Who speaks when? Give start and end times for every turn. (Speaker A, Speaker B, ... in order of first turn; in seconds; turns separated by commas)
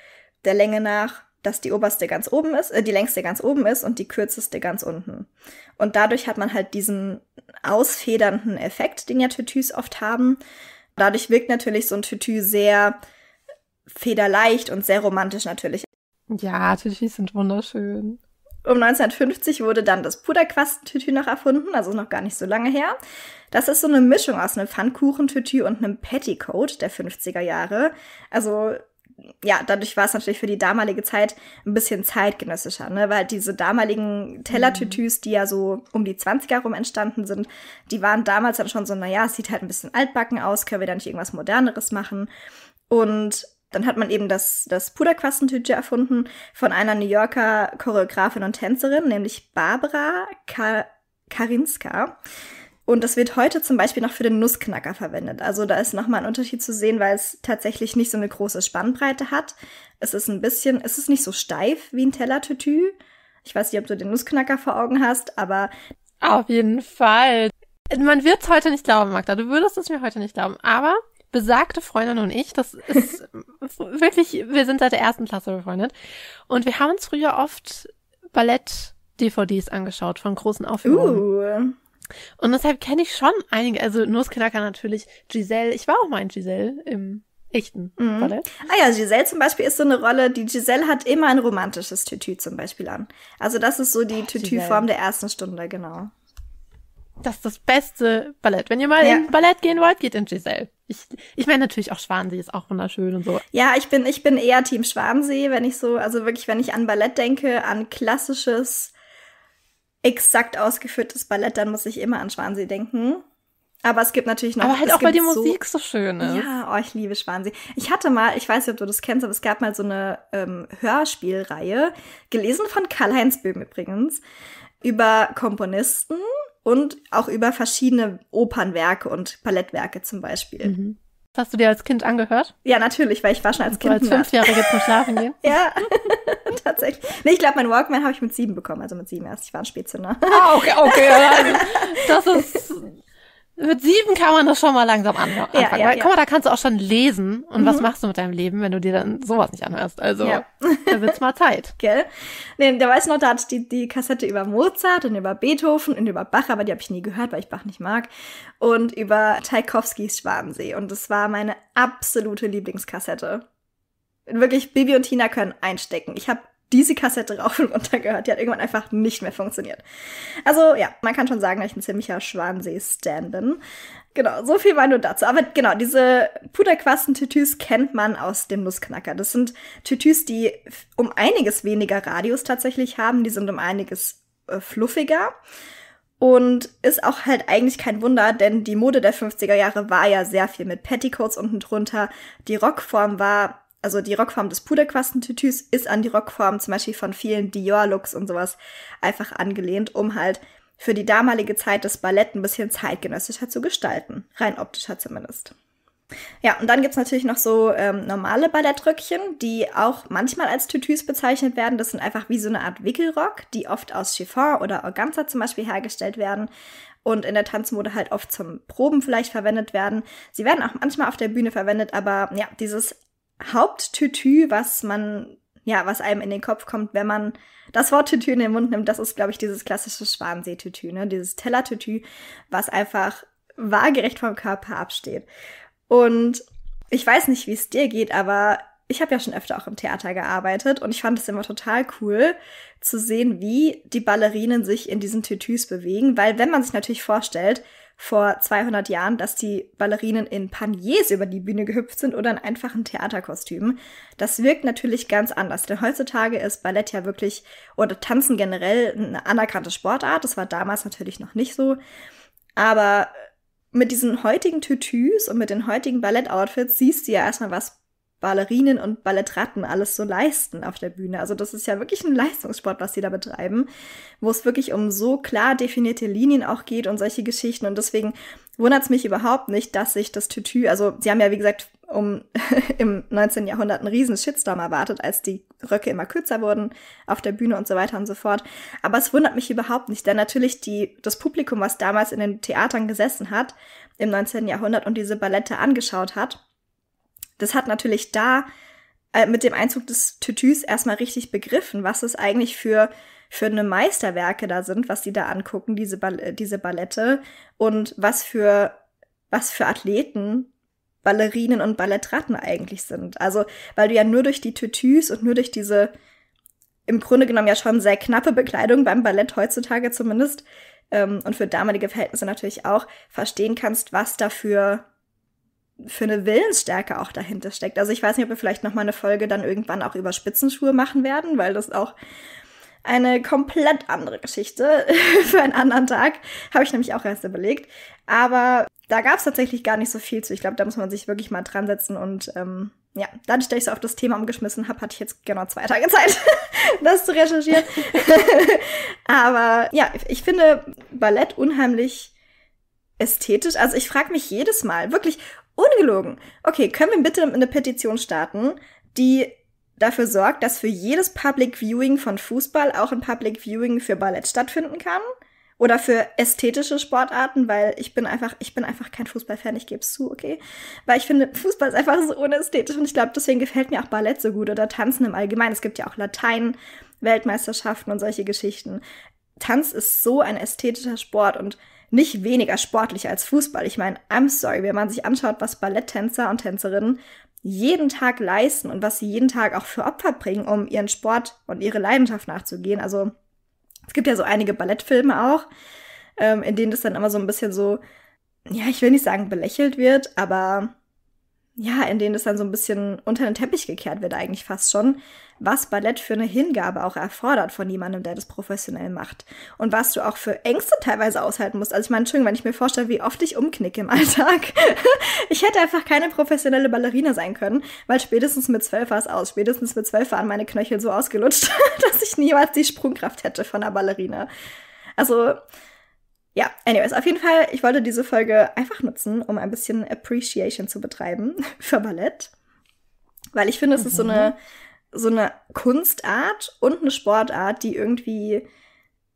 Speaker A: 0.4-10.4, Speaker A: 11.0-13.0, Speaker A: 13.9-15.9, Speaker B: 16.3-18.2, Speaker A: 18.6-23.0, Speaker A: 23.5-28.8, Speaker A: 29.4-42.3, Speaker B: 34.5-35.0, Speaker A: 42.9-52.1, Speaker A: 52.9-65.7, Speaker B: 66.2-75.9, Speaker B: 76.5-81.2, Speaker A: 80.8-81.8, Speaker B: 82.4-88.5, Speaker A: 88.0-96.1, Speaker B: 94.2-94.8, Speaker B: 97.2-103.4, Speaker A: 99.0-99.3, Speaker A: 103.5-108.9, Speaker A: 110.0-113.2, Speaker A: 113.8-115.6, Speaker B: 114.6-116.5, Speaker A: 116.2-124.2, Speaker A: 124.8-130.7, Speaker B: 130.6-132.5, Speaker A: 132.6-142.6, Speaker B: 133.6-135.5, Speaker B: 140.3-142.9, Speaker B: 143.6-151.7, Speaker A: 145.5-146.1, Speaker A: 147.6-147.9, Speaker A: 150.2-151.1, Speaker A: 151.8-158.1, Speaker A: 158.6-163.4, Speaker A: 164.3-169.8, Speaker A: 170.4-173.6, Speaker A: 174.1-185.3, Speaker A: 186.2-205.5, Speaker A: 206.4-216.5, Speaker A: 217.0-235.3, Speaker A: 235.9-261.8, Speaker A: 262.6-263.1, Speaker A: 263.7-273.7, Speaker A: 274.2-296.4, Speaker A: 297.4-298.5, Speaker A: 299.1-308.8, Speaker A: 309.3-310.5, Speaker A: 311.0-315.9, Speaker A: 316.9-324.8, Speaker A: 325.8-331.9, Speaker A: 332.8-352.1, Speaker A: 353.0-365.0, Speaker A: 365.6-378.8, Speaker A: 379.4-393.1, Speaker A: 393.9-395.4, Speaker A: 396.2-397.8, Speaker A: 398.5-400.7, Speaker A: 401.6-424.3, Speaker A: 425.0-425.4, Speaker A: 426.3-432.3, Speaker A: 433.3-434.4, Speaker B: 433.8-434.3, Speaker A: 434.9-438.4